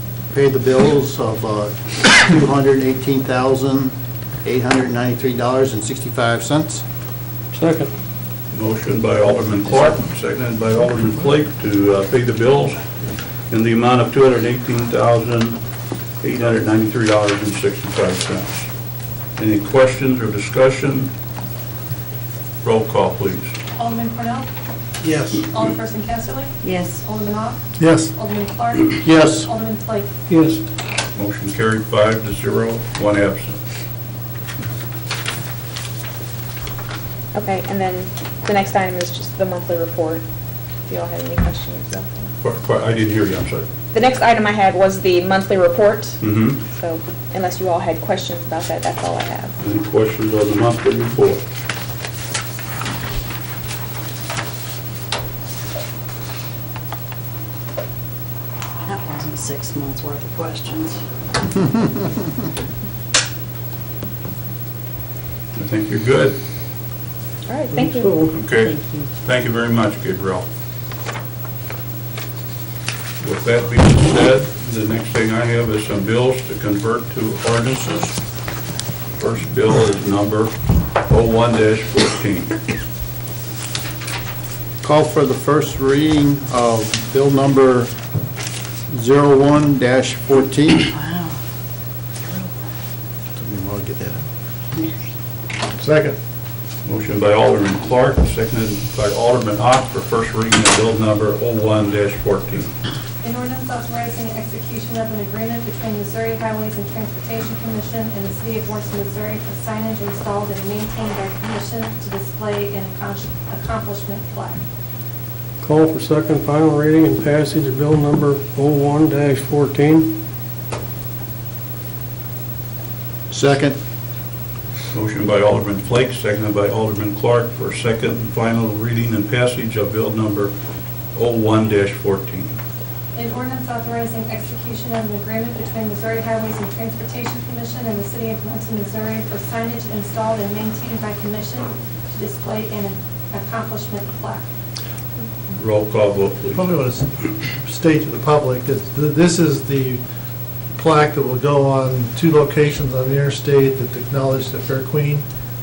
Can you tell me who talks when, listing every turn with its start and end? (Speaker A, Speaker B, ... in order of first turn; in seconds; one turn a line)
Speaker A: 0.3-6.8
Speaker B: 7.5-7.9
Speaker C: 8.5-12.8
Speaker C: 13.5-15.6
Speaker C: 16.2-18.7
Speaker C: 19.4-21.1
Speaker C: 22.6-23.5
Speaker D: 23.8-24.5
Speaker D: 25.3-27.6
Speaker E: 26.6-27.0
Speaker F: 27.8-28.1
Speaker D: 28.1-30.1
Speaker A: 29.0-29.5
Speaker B: 30.3-30.6
Speaker C: 31.1-33.6
Speaker G: 37.3-40.2
Speaker G: 40.9-42.3
Speaker C: 42.4-43.7
Speaker G: 43.9-46.2
Speaker C: 46.2-46.6
Speaker G: 46.7-49.6
Speaker C: 49.6-51.4
Speaker E: 58.9-61.0
Speaker C: 65.5-66.4
Speaker G: 67.5-68.2
Speaker B: 67.7-69.0
Speaker C: 68.2-70.5
Speaker C: 73.2-78.2
Speaker C: 79.2-80.5
Speaker C: 81.1-82.5
Speaker A: 84.8-87.9
Speaker A: 88.9-90.9
Speaker E: 91.0-91.3
Speaker A: 93.4-94.2
Speaker F: 95.8-96.2
Speaker C: 96.8-102.8
Speaker D: 103.2-114.6
Speaker B: 115.6-120.2
Speaker A: 123.3-123.8
Speaker C: 124.9-130.5
Speaker C: 131.2-132.6
Speaker D: 133.2-144.4
Speaker C: 145.6-146.7
Speaker F: 146.5-150.0
Speaker F: 150.8-155.2